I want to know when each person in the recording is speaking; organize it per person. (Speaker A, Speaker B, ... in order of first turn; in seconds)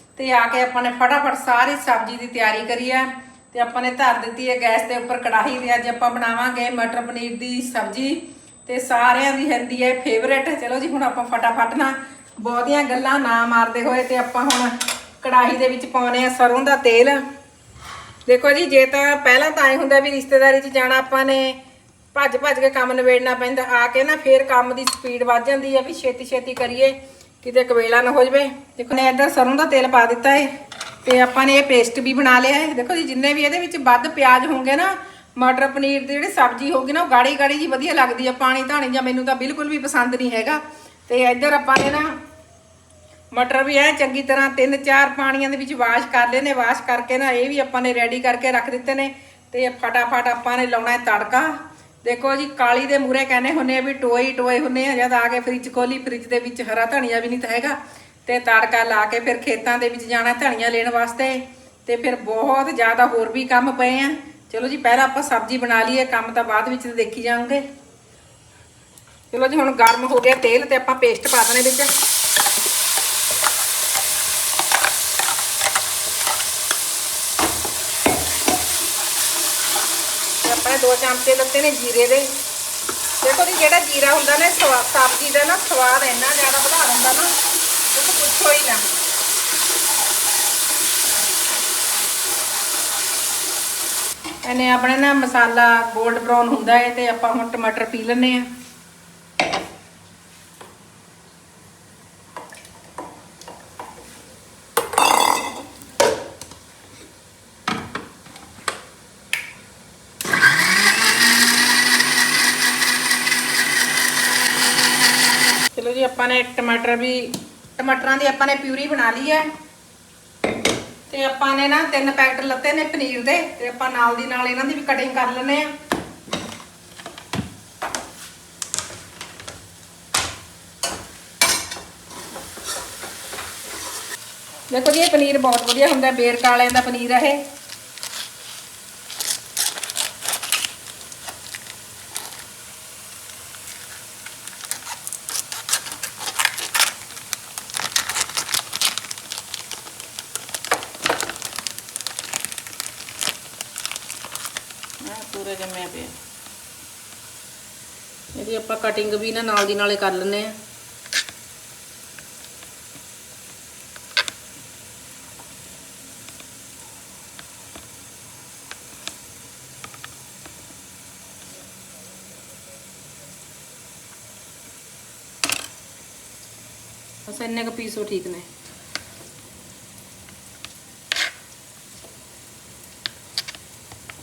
Speaker A: 0.1-17.2, 18.2-21.6, 22.1-30.5, 31.0-42.1, 43.3-67.6, 69.3-71.9, 80.4-82.3, 83.2-87.3, 87.9-88.8, 94.4-98.5, 115.7-119.5, 121.1-125.7, 134.7-137.4, 155.0-156.2, 158.3-160.5, 177.3-178.5